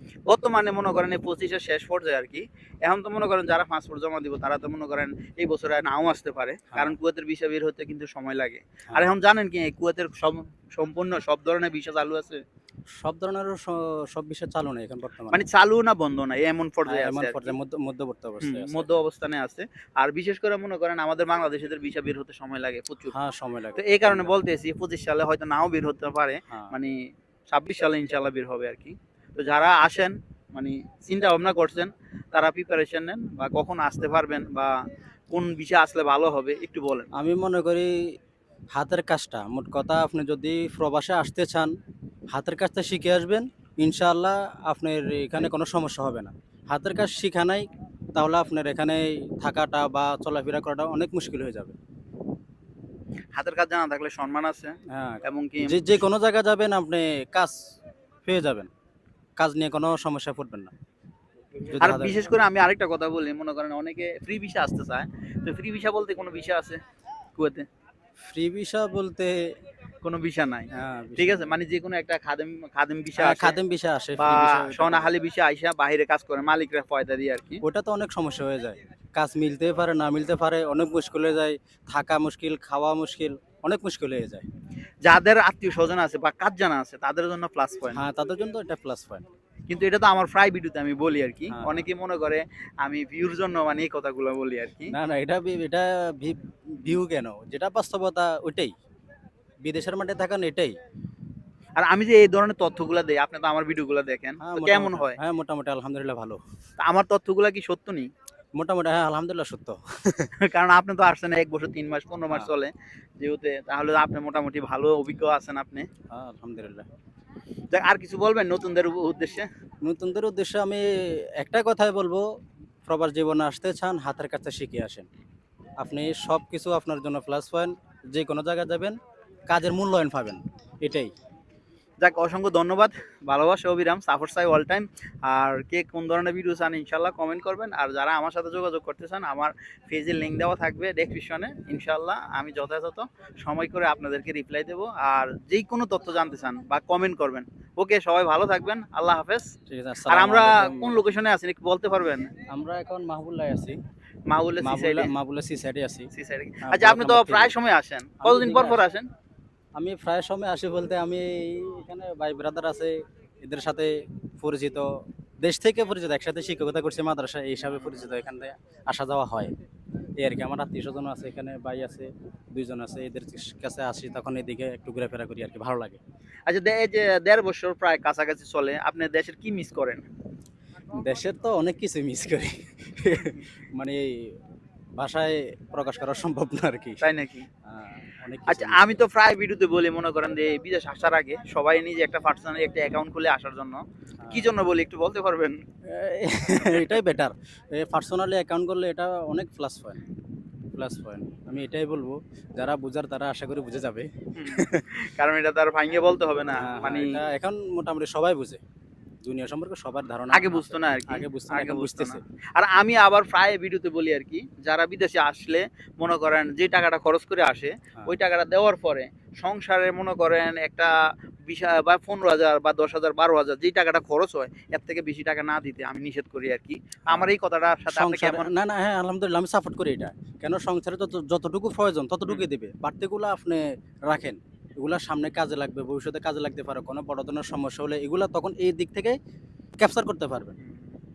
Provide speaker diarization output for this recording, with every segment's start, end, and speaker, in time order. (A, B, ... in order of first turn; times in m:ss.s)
0:00.3-0:12.4 A
0:06.7-0:07.0 B
0:13.0-0:15.5 B
0:15.3-0:17.5 A
0:16.8-0:19.0 B
0:18.4-0:23.1 A
0:23.1-0:24.2 B
0:23.8-0:26.9 A
0:26.5-0:26.7 B
0:27.5-0:34.8 A
0:35.3-0:37.1 A
0:37.2-0:37.9 B
0:38.7-0:41.7 B
0:42.3-0:51.8 B
0:53.3-0:55.8 A
0:54.9-0:57.6 B
0:58.2-0:58.7 B
0:59.4-1:00.7 B
1:01.6-1:02.2 B
1:01.8-1:06.8 A
1:07.3-1:07.7 A
1:08.3-1:09.4 B
1:10.0-1:13.6 A
1:10.7-1:11.5 B
1:13.2-1:15.1 B
1:14.2-1:17.6 A
1:17.6-1:24.5 B
1:25.0-1:28.0 A
1:27.9-1:29.2 B
1:29.7-1:34.9 A
1:31.5-1:31.9 B
1:34.9-1:38.7 B
1:39.6-1:40.7 B
1:41.8-1:45.2 A
1:44.4-1:46.4 B
1:46.8-1:48.1 A
1:48.6-1:50.3 B
1:50.4-1:55.9 A
1:56.1-1:56.9 B
1:57.7-1:59.5 A
1:59.8-2:00.8 B
2:01.4-2:02.2 B
2:02.8-2:05.1 B
2:05.8-2:09.0 B
2:09.5-2:11.1 B
2:12.0-2:29.5 A
2:29.7-2:31.0 B
2:30.1-2:32.3 A
2:32.5-2:33.8 B
2:34.3-2:35.1 A
2:34.6-2:36.1 B
2:36.1-2:39.1 A
2:36.6-2:37.5 B
2:38.2-2:38.9 B
2:39.8-2:44.9 B
2:45.4-2:49.5 B
2:47.6-2:48.1 A
2:50.2-2:56.0 B
2:56.5-3:00.0 A
3:00.9-3:04.3 B
3:05.0-3:07.1 B
3:07.0-3:07.4 A
3:07.6-3:09.0 B
3:08.5-3:15.6 A
3:14.2-3:14.5 B
3:15.9-3:20.0 B
3:16.5-3:17.0 A
3:20.7-3:24.8 B
3:24.3-3:27.2 A
3:26.6-3:28.6 B
3:29.2-3:32.2 B
3:30.3-3:40.9 A
3:41.5-3:48.5 A
3:47.9-3:59.2 B
3:59.8-4:00.6 B